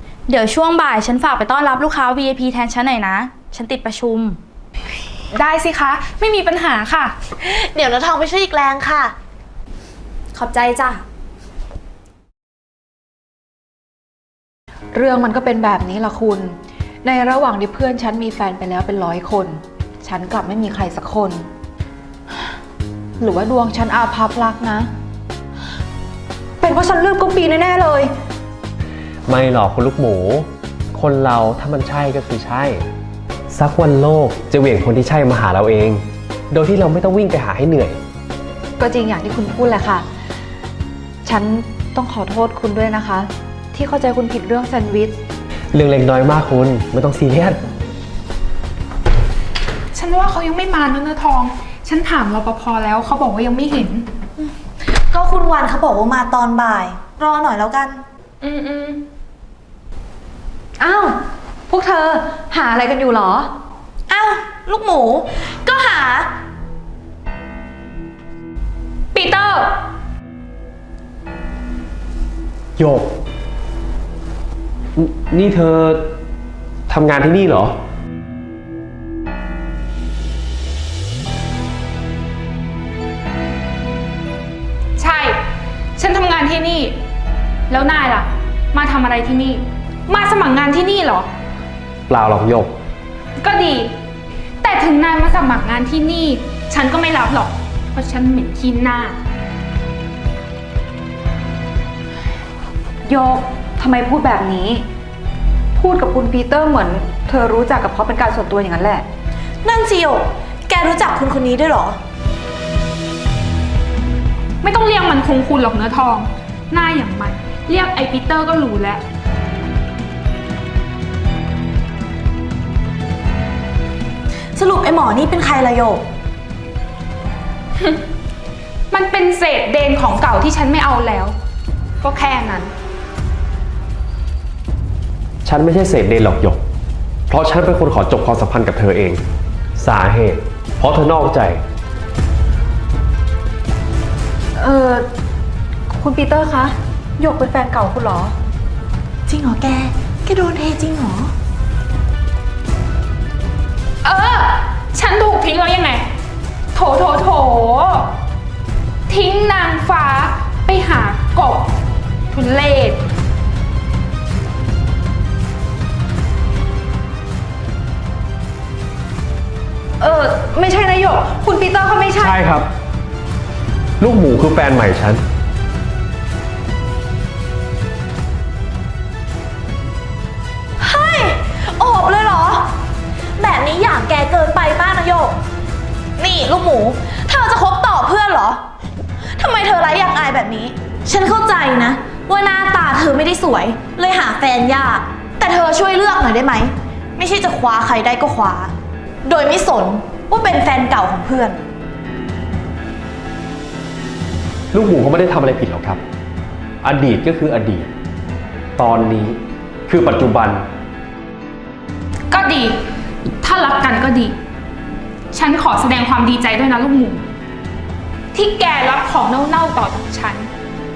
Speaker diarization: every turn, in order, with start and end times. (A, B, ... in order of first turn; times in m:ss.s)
0:00.3-0:04.4 A
0:05.3-0:07.2 B
0:07.4-0:09.1 C
0:10.4-0:11.0 A
0:14.9-0:21.5 D
0:23.2-0:24.9 D
0:26.6-0:28.1 D
0:29.3-0:32.8 E
0:33.5-0:38.0 E
0:38.8-0:40.0 D
0:41.2-0:45.2 D
0:45.7-0:47.6 E
0:49.9-0:54.0 B
0:55.1-0:58.0 C
0:58.4-0:59.0 B
1:00.8-1:01.2 D
1:01.7-1:03.5 D
1:04.1-1:06.3 C
1:09.1-1:09.8 B
1:12.8-1:13.1 E
1:15.0-1:16.1 E
1:16.9-1:17.8 E
1:25.0-1:25.4 B
1:26.0-1:27.0 B
1:27.7-1:31.3 B
1:32.1-1:32.7 E
1:33.4-1:33.9 B
1:34.6-1:39.2 B
1:43.0-1:44.8 D
1:45.8-1:49.0 D
1:49.6-1:52.0 C
1:54.6-1:59.0 B
2:04.6-2:06.0 C
2:08.9-2:11.4 B
2:12.0-2:12.7 B
2:15.4-2:16.6 E
2:17.3-2:19.2 E
2:19.8-2:21.6 E
2:24.6-2:25.0 D
2:25.9-2:28.4 D
2:29.3-2:31.3 C
2:34.0-2:36.0 B
2:36.8-2:38.1 B
2:39.1-2:41.7 B
2:42.3-2:43.0 B
2:50.0-2:52.4 D
2:52.2-2:52.7 E
2:54.0-2:55.2 E
3:00.8-3:02.7 C
3:03.4-3:05.4 C
3:06.2-3:08.6 C
3:09.4-3:18.7 C
3:19.2-3:21.6 C
3:24.7-3:26.0 E
3:26.8-3:27.9 E
3:28.8-3:30.7 E
3:32.3-3:32.8 B
3:33.4-3:34.4 B
3:35.3-3:37.2 B
3:38.3-3:40.5 B